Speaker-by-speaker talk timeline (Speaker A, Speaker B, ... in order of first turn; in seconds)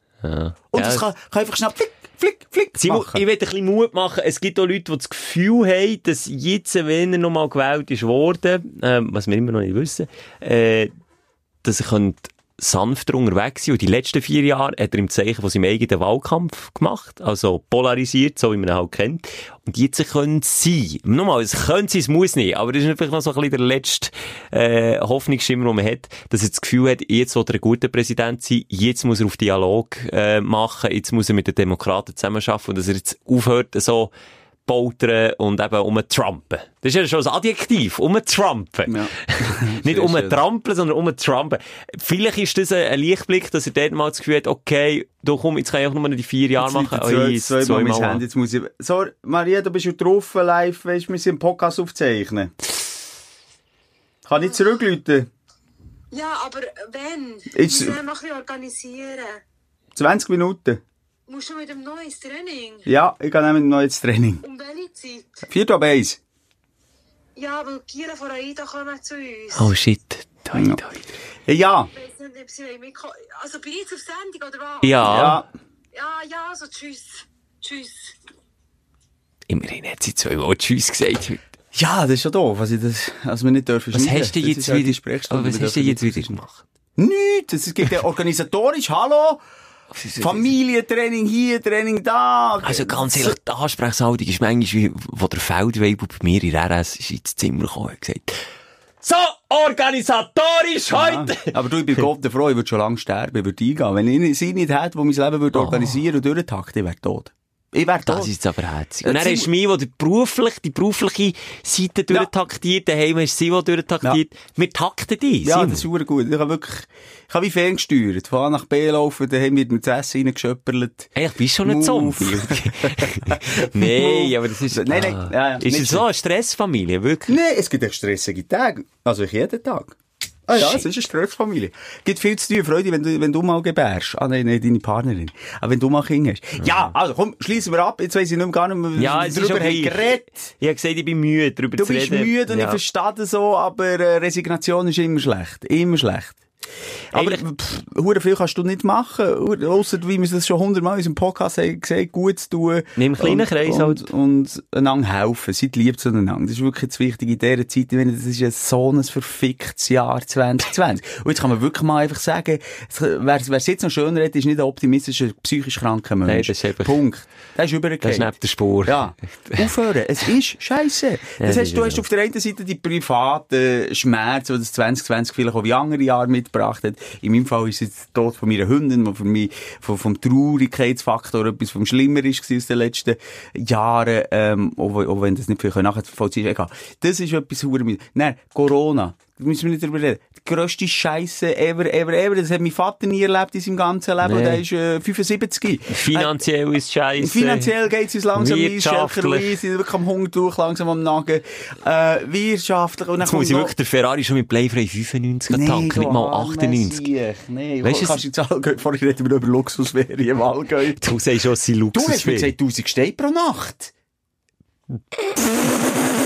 Speaker A: 0.2-1.0, 2.8-10.9, 11.6-34.1, 34.6-48.2, 69.5-71.1, 74.8-75.4, 79.5-81.4, 83.9-86.6, 89.9-90.5, 92.6-98.4, 99.0-101.5, 105.5-106.0, 108.1-115.8, 121.2-127.4, 130.6-130.9, 139.0-142.8, 147.1-147.4, 153.0-154.1, 166.2-167.0, 168.0-169.7, 171.4-172.0, 194.2-194.6, 195.9-197.7, 198.3-199.6, 203.2-207.0, 207.8-208.2, 211.0-212.5
Speaker B: 0.7-3.2, 38.9-40.4, 46.6-52.6, 54.3-55.3, 57.5-58.0, 59.9-60.8, 62.9-64.4, 65.5-66.2, 70.5-70.8, 71.5-71.9, 75.0-75.5, 81.7-86.4, 87.0-89.4, 90.2-93.3, 100.9-108.3, 109.0-109.5, 115.4-121.1, 121.6-126.0, 127.3-130.0, 130.5-140.5, 141.8-146.4, 147.1-168.3, 168.8-196.4, 197.2-203.7, 205.5-211.0, 211.9-213.9
Speaker C: 56.1-59.4, 61.3-62.9, 64.4-65.3, 67.3-69.7, 72.0-75.1, 75.9-78.1